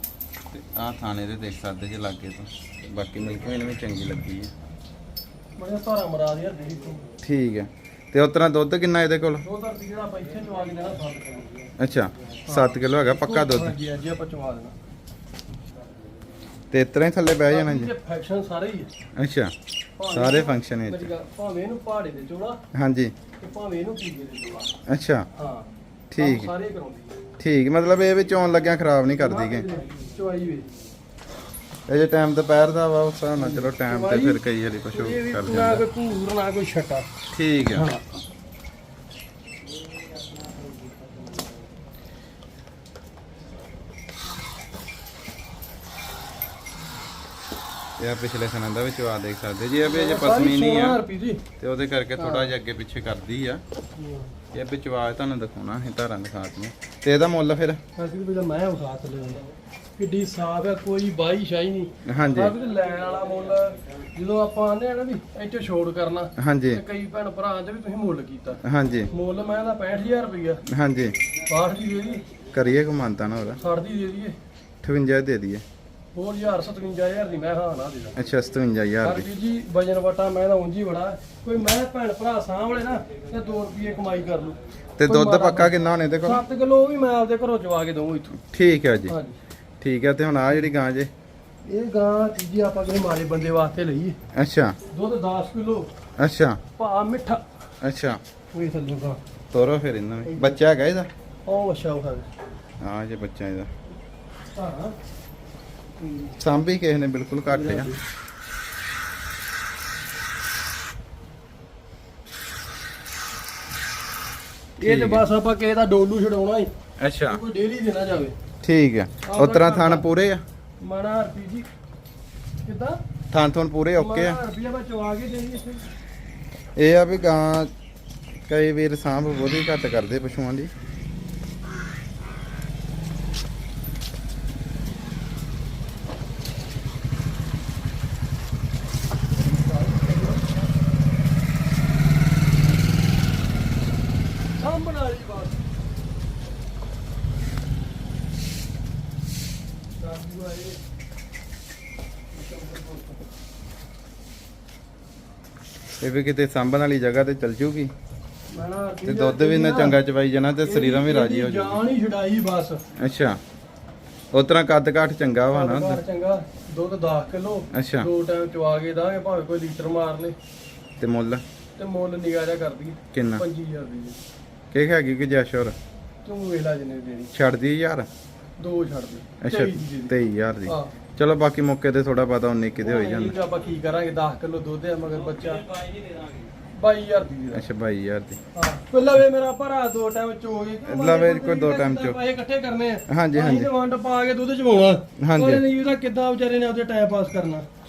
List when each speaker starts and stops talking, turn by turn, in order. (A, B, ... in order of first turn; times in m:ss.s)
0:00.5-0:04.5 A
0:05.6-0:07.1 B
0:07.2-0:09.4 A
0:09.4-0:11.6 B
0:11.8-0:13.8 A
0:12.5-0:14.8 B
0:16.7-0:17.9 A
0:17.5-0:18.9 B
0:19.2-0:19.5 A
0:20.0-0:22.6 B
0:20.1-0:21.1 A
0:22.7-0:23.2 A
0:23.4-0:24.7 B
0:24.9-0:25.3 A
0:25.3-0:27.2 B
0:26.1-0:26.5 A
0:27.4-0:29.7 A
0:29.1-0:30.7 B
0:31.9-0:35.8 A
0:33.4-0:37.1 B
0:37.3-0:37.9 A
0:37.7-0:38.0 B
0:48.0-0:51.0 A
0:49.8-0:51.4 B
0:51.6-0:53.6 A
0:52.2-0:52.5 B
0:54.0-0:54.4 B
0:54.5-0:57.8 A
0:58.0-0:59.4 B
1:00.0-1:10.6 B
1:02.1-1:02.6 A
1:06.4-1:06.8 A
1:08.6-1:09.1 A
1:10.7-1:11.2 A
1:11.5-1:12.3 B
1:12.5-1:13.6 A
1:13.6-1:14.4 B
1:14.8-1:15.6 A
1:16.1-1:18.2 B
1:18.2-1:19.3 A
1:19.0-1:28.4 B
1:25.0-1:26.4 A
1:28.4-1:29.2 A
1:29.1-1:29.4 B
1:29.8-1:31.1 A
1:31.7-1:34.2 B
1:34.3-1:34.8 A
1:34.9-1:35.9 B
1:36.2-1:36.6 A
1:36.8-1:37.4 B
1:37.8-1:38.2 A
1:38.5-1:39.2 B
1:39.5-1:41.1 A
1:40.2-1:40.6 B
1:41.5-1:42.3 B
1:42.8-1:43.7 A
1:44.5-1:45.0 B
1:46.0-1:46.3 B
1:46.4-1:47.9 A
1:47.5-1:48.0 B
1:54.8-1:56.7 B
1:54.8-1:55.2 A
1:57.0-1:57.4 A
1:57.3-1:58.4 B
1:58.6-2:00.4 A
1:59.2-2:00.1 B
2:00.8-2:01.7 B
2:02.6-2:03.0 B
2:03.3-2:04.4 A
2:04.0-2:05.9 B
2:06.8-2:07.7 A
2:08.5-2:10.7 A
2:19.4-2:20.5 B
2:24.6-2:25.6 B
2:30.0-2:30.8 B
2:32.3-2:33.2 B
2:36.0-2:37.9 A
2:38.5-2:40.0 B
2:39.1-2:41.8 A
2:40.6-2:42.8 B
2:43.0-2:43.4 A
2:44.3-2:46.0 A
2:45.5-2:50.4 B
2:47.7-2:48.1 A
2:51.0-2:51.4 A
2:51.8-2:54.2 B
2:53.1-2:53.4 A
2:54.7-2:55.8 A
2:56.2-2:57.3 B
2:57.3-2:58.1 A
2:58.6-3:00.1 B
2:59.4-3:03.4 A
3:00.7-3:00.9 B
3:02.8-3:05.7 B
3:06.7-3:07.7 B
3:07.5-3:08.4 A
3:08.5-3:17.7 B
3:10.9-3:12.2 A
3:13.1-3:13.7 A
3:15.2-3:15.6 A